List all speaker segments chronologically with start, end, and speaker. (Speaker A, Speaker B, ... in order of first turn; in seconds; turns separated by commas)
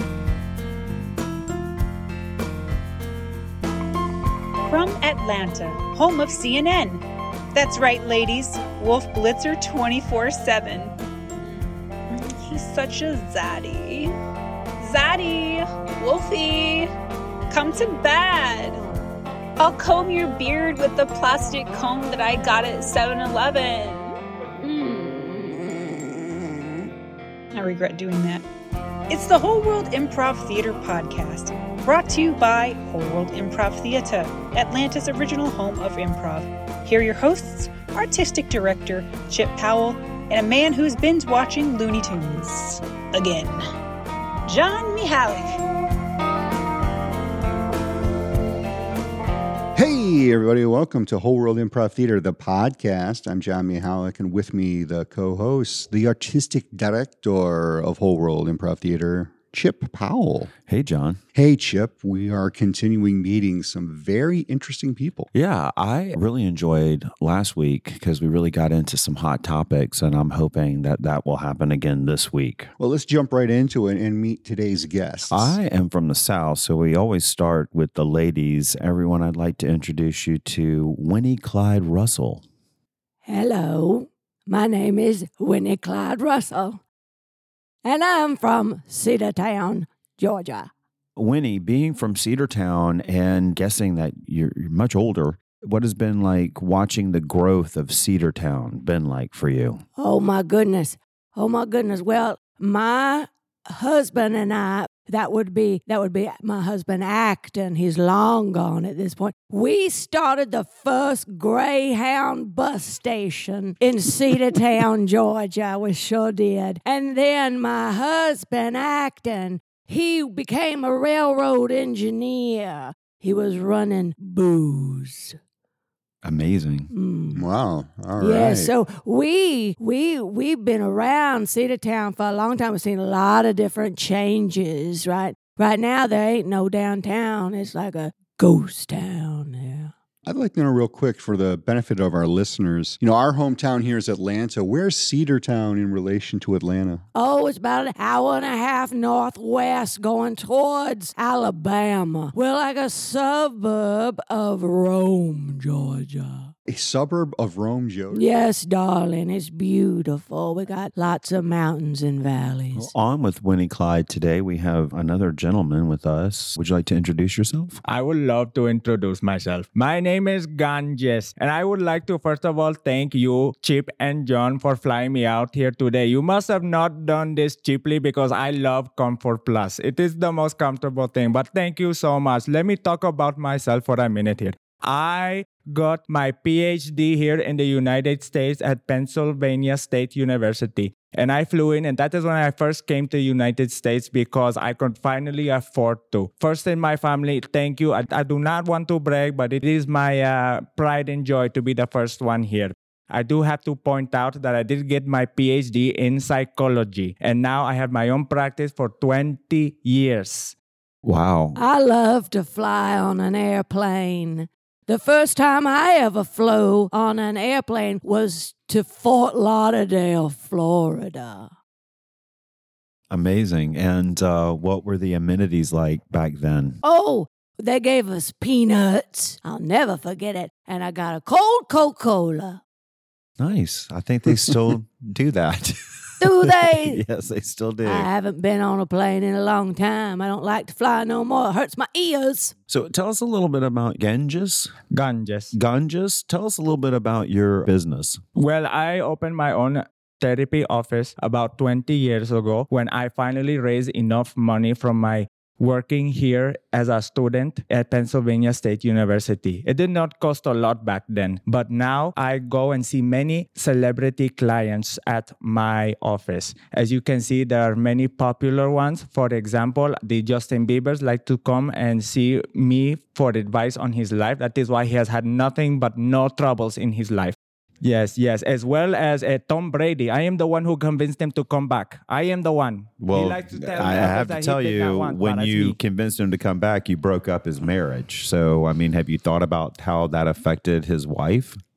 Speaker A: 4.7-7.0, Speaker A: 7.5-10.9, Speaker A: 12.1-14.2, Speaker A: 14.8-16.9, Speaker A: 17.5-18.8, Speaker A: 19.6-26.6, Speaker A: 27.5-28.5, Speaker A: 29.1-43.6, Speaker A: 44.5-45.6, Speaker B: 49.8-60.5, Speaker C: 60.7-61.2, Speaker B: 61.4-65.3, Speaker C: 65.3-72.7, Speaker B: 72.8-75.6, Speaker C: 75.3-82.4, Speaker D: 83.3-86.8, Speaker D: 87.8-90.7, Speaker C: 91.2-99.8, Speaker D: 100.0-125.4, Speaker C: 126.2-126.9, Speaker D: 126.9-127.5, Speaker B: 127.3-128.7, Speaker D: 128.2-139.9, Speaker B: 140.2-147.0, Speaker D: 147.2-156.5, Speaker B: 156.7-158.2, Speaker D: 158.1-162.9, Speaker C: 162.8-167.8, Speaker E: 167.8-210.6, Speaker C: 211.0-211.6, Speaker D: 211.6-221.5, Speaker C: 223.1-226.8, Speaker D: 226.8-232.6, Speaker C: 233.4-238.1, Speaker D: 236.2-237.0, Speaker D: 237.8-242.5, Speaker C: 242.7-244.8, Speaker E: 244.9-245.5, Speaker C: 245.5-248.2, Speaker E: 248.4-285.8, Speaker C: 283.0-291.6